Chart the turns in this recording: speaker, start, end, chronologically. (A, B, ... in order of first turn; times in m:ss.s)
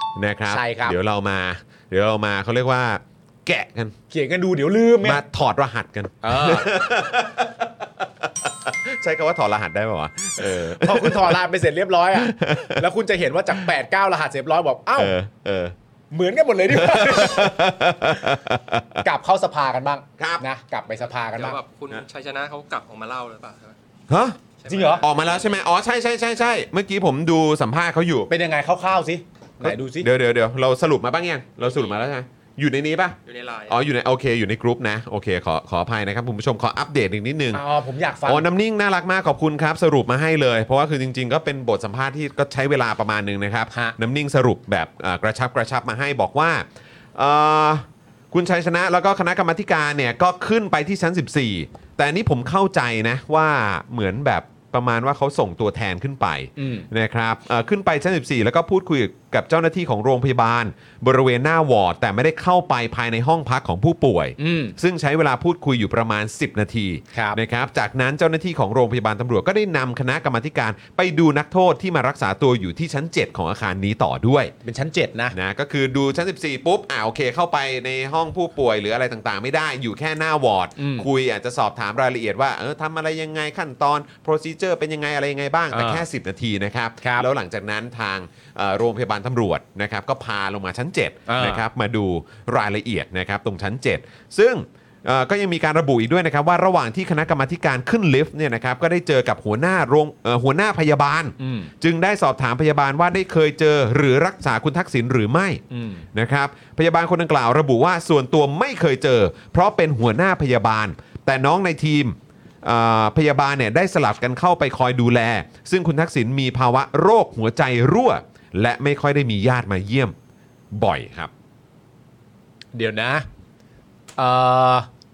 0:00.2-0:04.0 A
0:00.5-0:01.0 B
0:04.1-0:05.2 B
0:05.0-0:11.4 A
0:06.2-0:06.8 B
0:10.4-0:15.2 B
0:12.1-0:12.8 A
0:15.0-0:15.8 A
0:16.1-0:17.7 B
0:16.7-0:19.1 A
0:19.0-0:21.6 B
0:20.2-0:20.4 A
0:21.3-0:23.8 C
0:24.1-0:24.4 A
0:24.5-0:25.7 C
0:24.7-0:25.0 B
0:25.0-0:28.3 A
0:28.3-0:30.1 B
0:29.6-0:33.2 A
0:31.7-0:31.9 C
0:33.2-0:33.8 C
0:33.7-0:37.6 A
0:37.5-0:38.5 B
0:38.2-1:14.5 A
0:56.6-0:56.9 B
1:04.4-1:04.8 B
1:07.1-1:07.4 B
1:14.6-1:15.4 B
1:15.3-1:45.6 A
1:20.8-1:21.1 B
1:25.7-1:26.0 B
1:27.0-1:27.3 B
1:31.3-1:31.6 B
1:41.4-1:41.7 B
1:45.7-1:46.1 B
1:46.1-2:00.2 A
2:00.7-2:01.3 A
2:02.7-2:03.3 B
2:04.2-2:04.9 B